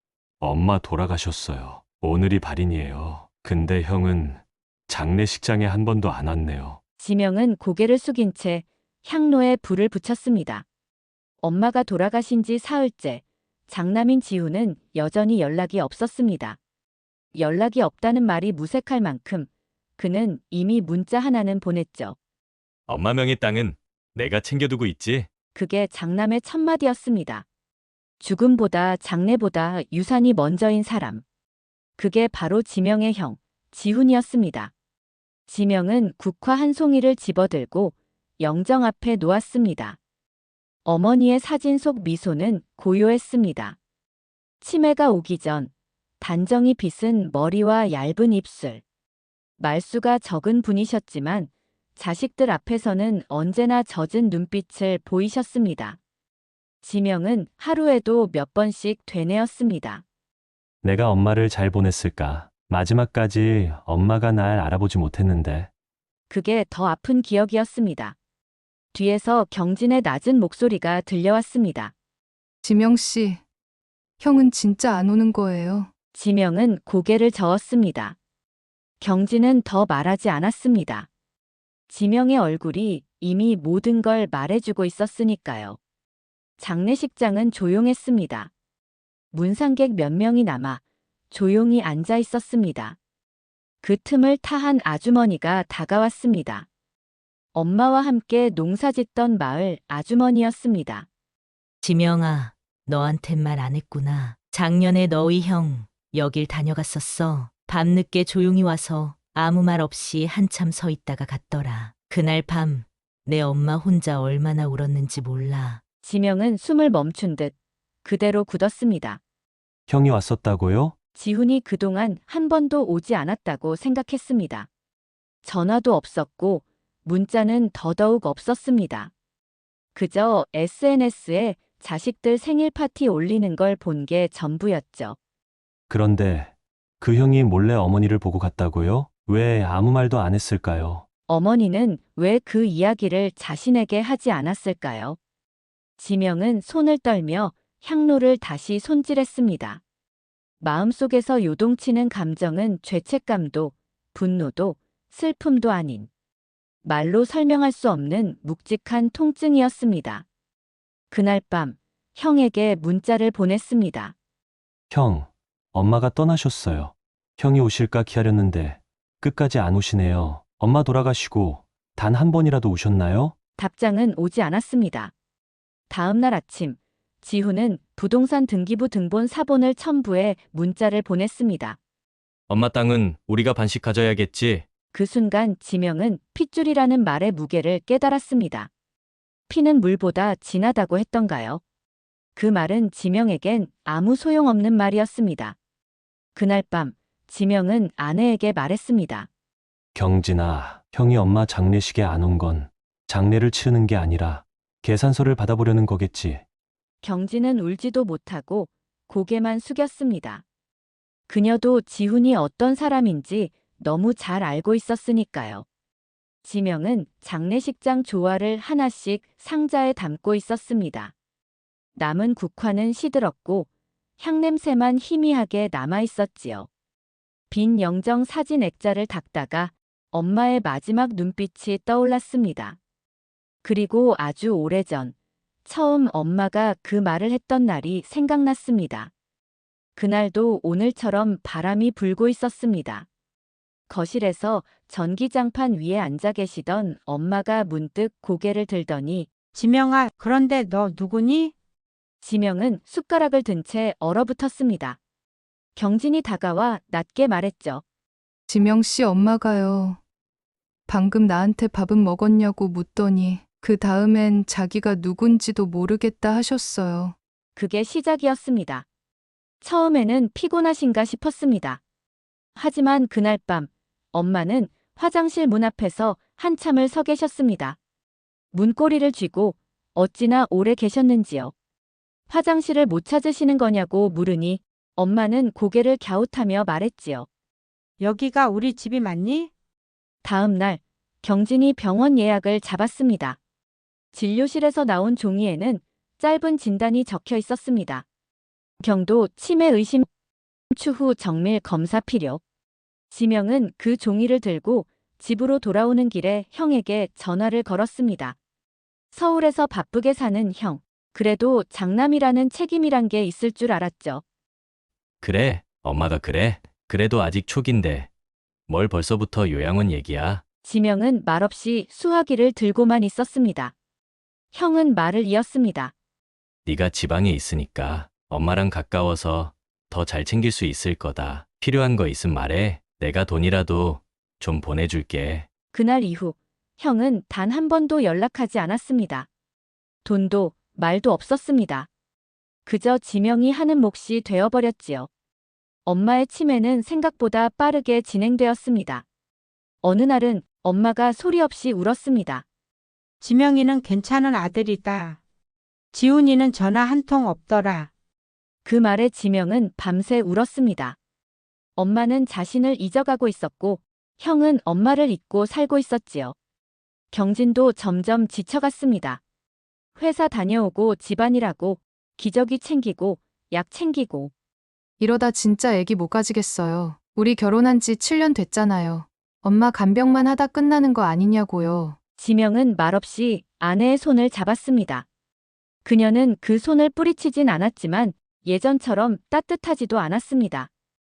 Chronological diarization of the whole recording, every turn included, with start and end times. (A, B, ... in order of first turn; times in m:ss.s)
0:00.4-0:06.8 A
0:07.0-0:10.6 B
0:11.4-0:16.6 B
0:17.4-0:22.2 B
0:22.9-0:25.3 C
0:25.6-0:27.4 B
0:28.2-0:31.2 B
0:32.0-0:34.7 B
0:35.5-0:40.0 B
0:40.8-0:43.8 B
0:44.6-0:48.8 B
0:49.6-0:56.0 B
0:56.8-1:00.0 B
1:00.8-1:05.7 A
1:06.3-1:08.2 B
1:08.9-1:11.9 B
1:12.6-1:13.4 D
1:14.2-1:15.9 D
1:16.1-1:18.2 B
1:19.0-1:21.1 B
1:21.9-1:25.8 B
1:26.6-1:28.5 B
1:29.3-1:33.0 B
1:33.8-1:36.7 B
1:37.6-1:41.1 B
1:41.8-1:55.8 E
1:56.0-1:57.5 B
1:58.0-1:59.2 B
1:59.9-2:01.0 A
2:01.2-2:04.7 B
2:05.4-2:09.1 B
2:10.0-2:15.2 B
2:15.9-2:21.0 A
2:21.3-2:25.2 B
2:26.0-2:29.8 B
2:30.6-2:36.1 B
2:36.8-2:40.2 B
2:41.1-2:44.1 B
2:44.9-2:53.4 A
2:53.6-2:55.1 B
2:55.9-3:01.8 B
3:02.5-3:04.7 C
3:04.9-3:08.7 B
3:09.5-3:11.6 B
3:12.4-3:15.6 B
3:16.4-3:19.3 B
3:20.0-3:26.4 A
3:27.0-3:30.4 B
3:31.3-3:35.6 B
3:36.4-3:41.1 B
3:42.0-3:43.7 B
3:44.2-3:46.7 B
3:47.5-3:52.8 B
3:53.6-3:55.1 B
3:55.6-3:59.1 B
4:00.0-4:03.1 B
4:03.9-4:09.3 B
4:09.5-4:11.5 F
4:12.2-4:15.0 B
4:15.8-4:17.8 B
4:18.5-4:20.0 D
4:20.9-4:27.2 D
4:27.6-4:28.8 B
4:29.6-4:31.8 B
4:32.6-4:37.8 B
4:38.5-4:41.5 B
4:42.3-4:47.3 B
4:48.0-4:49.5 F
4:50.2-4:53.4 B
4:54.1-4:58.0 B
4:58.8-5:00.1 B
5:00.7-5:02.4 B
5:03.1-5:08.4 B
5:09.1-5:14.2 B
5:15.2-5:18.1 C
5:18.7-5:20.4 C
5:20.6-5:23.7 B
5:24.5-5:25.9 B
5:26.7-5:35.5 C
5:35.7-5:39.3 B
5:40.0-5:41.9 B
5:42.7-5:45.1 B
5:45.9-5:49.0 B
5:49.8-5:52.4 B
5:53.2-5:55.2 F
5:55.9-5:57.9 F
5:58.6-6:01.0 B
6:01.8-6:06.4 B
6:07.1-6:09.2 B
6:10.0-6:14.3 B
6:15.0-6:22.0 D
6:22.2-6:25.1 B
6:25.8-6:30.7 B